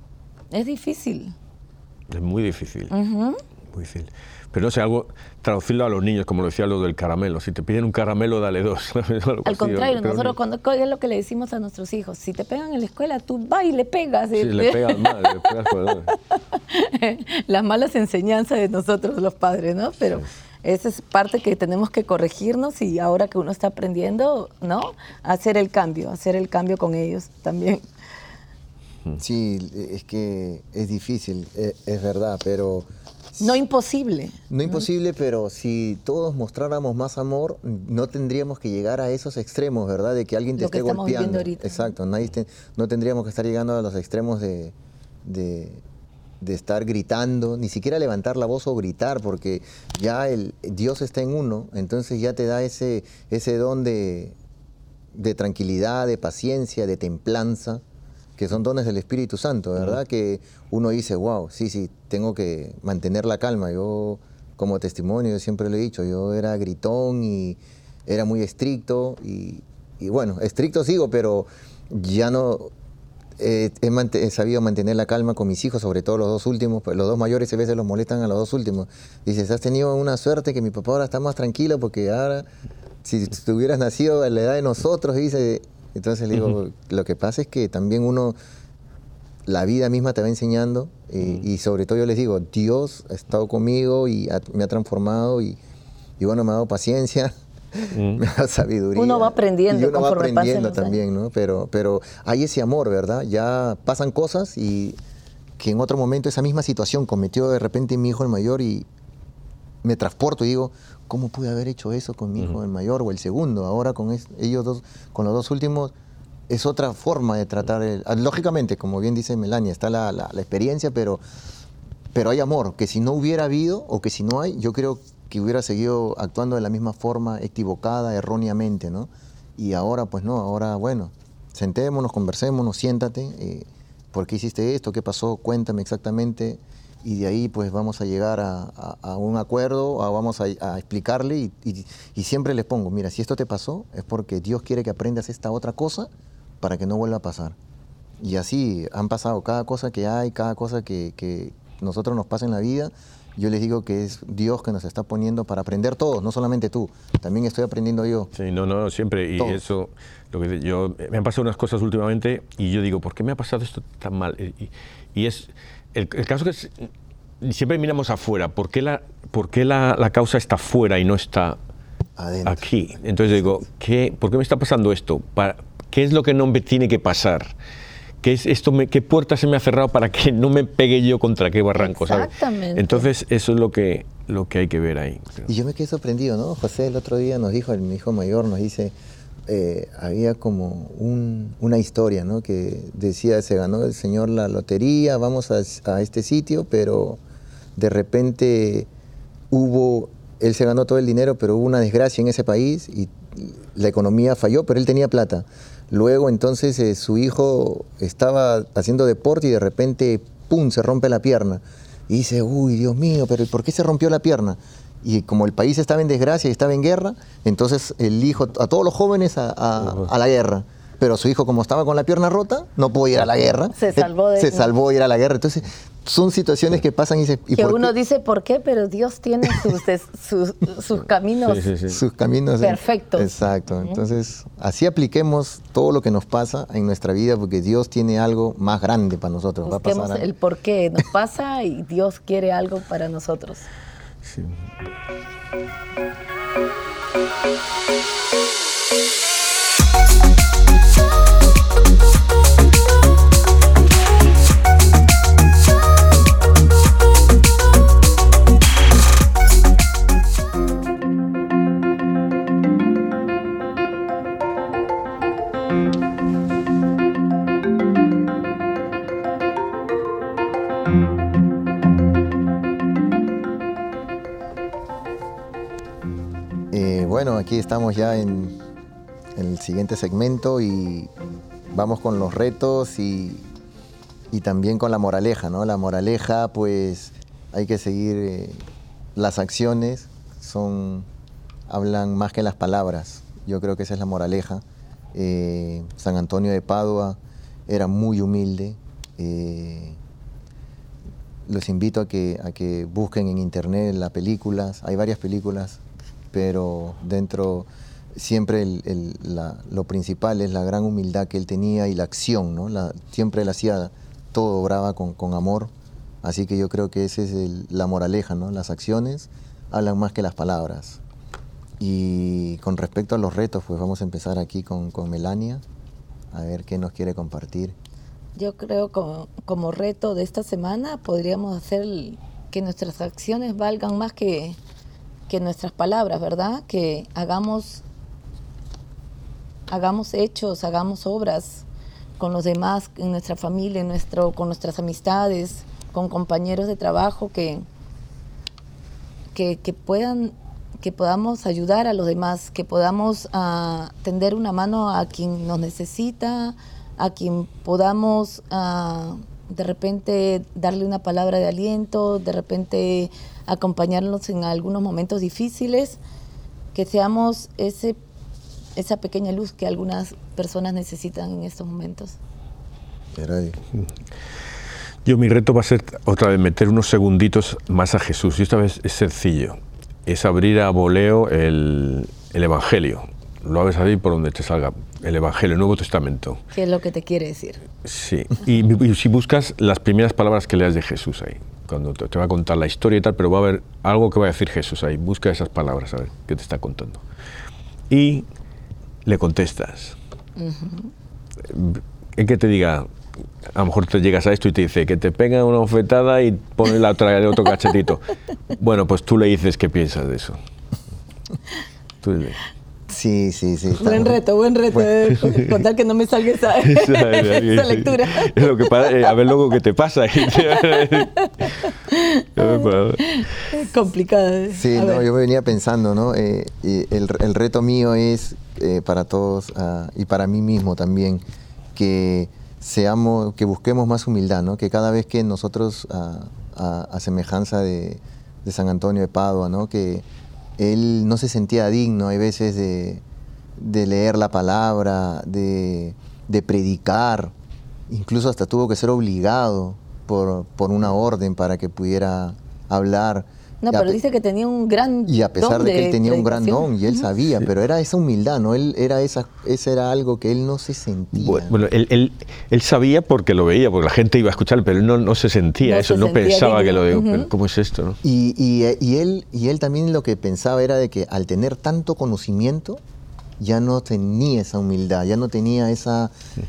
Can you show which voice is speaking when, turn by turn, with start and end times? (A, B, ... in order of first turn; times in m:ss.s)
0:00.5-0:01.4 A
0:02.1-0:02.9 B
0:02.9-0:03.4 A
0:03.7-0:10.4 B
0:09.4-0:15.7 A
0:14.4-0:16.2 B
0:16.5-0:27.8 A
0:29.2-0:33.5 C
0:33.4-0:34.8 A
0:34.5-0:45.8 C
0:40.6-0:41.9 A
0:46.4-0:54.4 C
0:55.1-0:57.8 C
0:58.4-1:12.7 C
1:13.4-1:22.5 C
1:23.0-1:28.4 C
1:29.5-1:35.6 C
1:36.2-1:45.0 C
1:37.9-1:38.2 B
1:39.0-1:41.0 A
1:45.6-1:48.9 C
1:49.8-1:55.9 C
1:56.5-2:01.2 C
2:02.1-2:26.1 C
2:26.6-2:27.6 C
2:28.2-2:38.3 C
2:38.3-2:46.9 B
2:39.4-2:39.6 C
2:47.4-2:51.6 B
2:52.2-2:52.7 C
2:52.5-2:57.5 B
2:58.2-3:05.5 B
3:01.8-3:03.1 A
3:05.5-3:08.9 C
3:09.5-3:17.2 C
3:17.8-3:18.9 C
3:19.5-3:47.9 C
3:43.8-3:44.7 A
3:47.6-3:51.7 A
3:51.4-3:52.0 B
3:51.9-4:00.3 C
3:52.6-3:54.0 A
3:59.6-4:03.7 A
4:04.2-4:04.6 B
4:36.7-4:38.6 C
4:39.4-4:41.1 C
4:41.7-4:43.5 C
4:44.3-4:48.6 C
4:49.2-4:51.1 C
4:51.7-4:54.6 C
4:55.1-5:00.0 C
5:01.5-5:05.8 C
5:06.3-5:15.7 C
5:16.2-5:21.0 C
5:21.8-5:25.6 C
5:26.3-5:27.8 C
5:28.4-5:34.6 A
5:35.3-5:37.8 A
5:39.7-5:41.7 A
5:42.2-5:47.6 A
5:49.3-6:06.0 A
6:06.7-6:08.0 A
6:08.8-6:12.2 A
6:13.2-6:13.6 C
6:15.0-6:26.4 B
6:26.5-6:27.6 A
6:27.8-6:37.0 B
6:37.9-6:38.3 B
6:39.1-6:40.0 B
6:40.4-6:40.9 A
6:41.4-6:42.9 B
6:43.5-6:50.4 B
6:52.0-6:52.4 B
6:52.9-6:54.2 C
6:53.8-6:59.1 A
6:55.2-6:55.6 B
6:56.6-7:01.5 B
7:00.2-7:05.1 A
7:02.4-7:03.6 B
7:04.5-7:11.2 C
7:11.8-7:20.1 C
7:20.6-7:23.0 C
7:23.6-7:27.3 C
7:27.9-7:34.0 C
7:33.6-7:37.1 A
7:35.1-7:41.6 C
7:41.1-7:48.0 B
7:45.6-7:47.3 A
7:48.0-7:52.8 C
7:53.4-7:56.1 C